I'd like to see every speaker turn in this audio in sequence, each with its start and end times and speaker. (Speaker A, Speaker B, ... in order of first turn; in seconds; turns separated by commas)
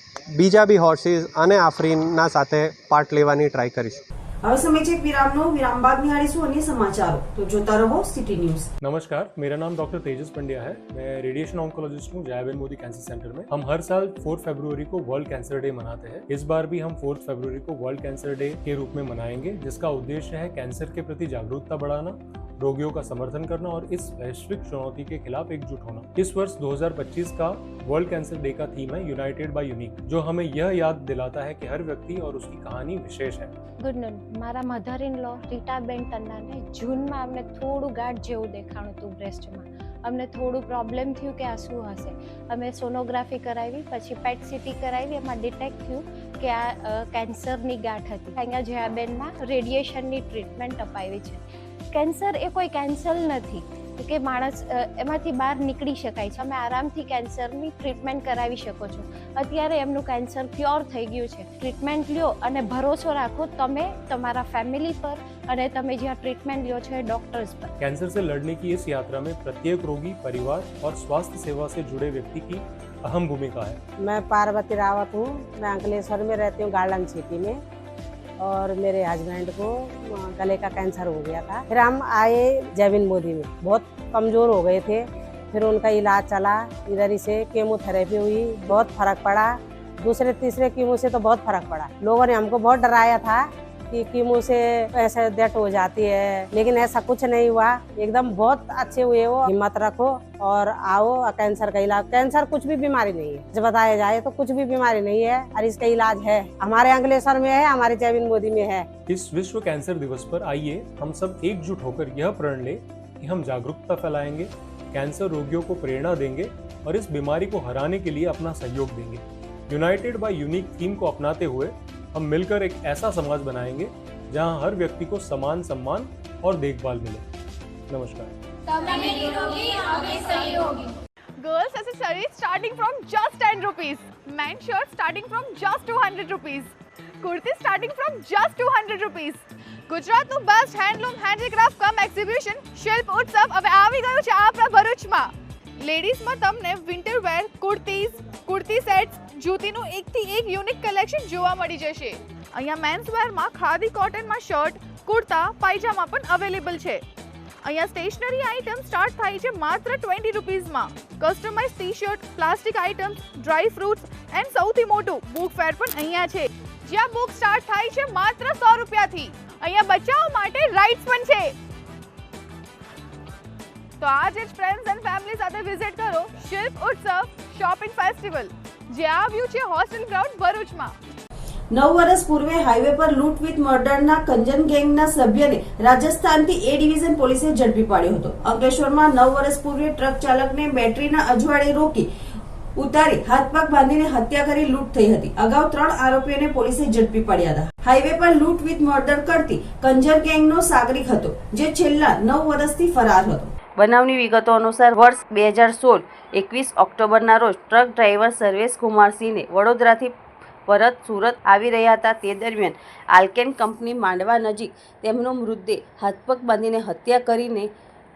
Speaker A: 0.3-4.0, Speaker B: 4.4-8.7, Speaker C: 8.8-33.5, Speaker D: 33.8-51.4, Speaker D: 51.9-67.7, Speaker C: 67.8-73.8, Speaker E: 74.0-77.6, Speaker E: 78.4-108.9, Speaker C: 109.1-127.2, Speaker C: 127.9-128.3, Speaker F: 128.9-130.7, Speaker F: 131.4-157.0, Speaker F: 157.6-171.5, Speaker F: 174.0-180.9, Speaker B: 181.7-192.1, Speaker B: 192.8-203.5, Speaker G: 203.8-210.1, Speaker G: 210.7-217.7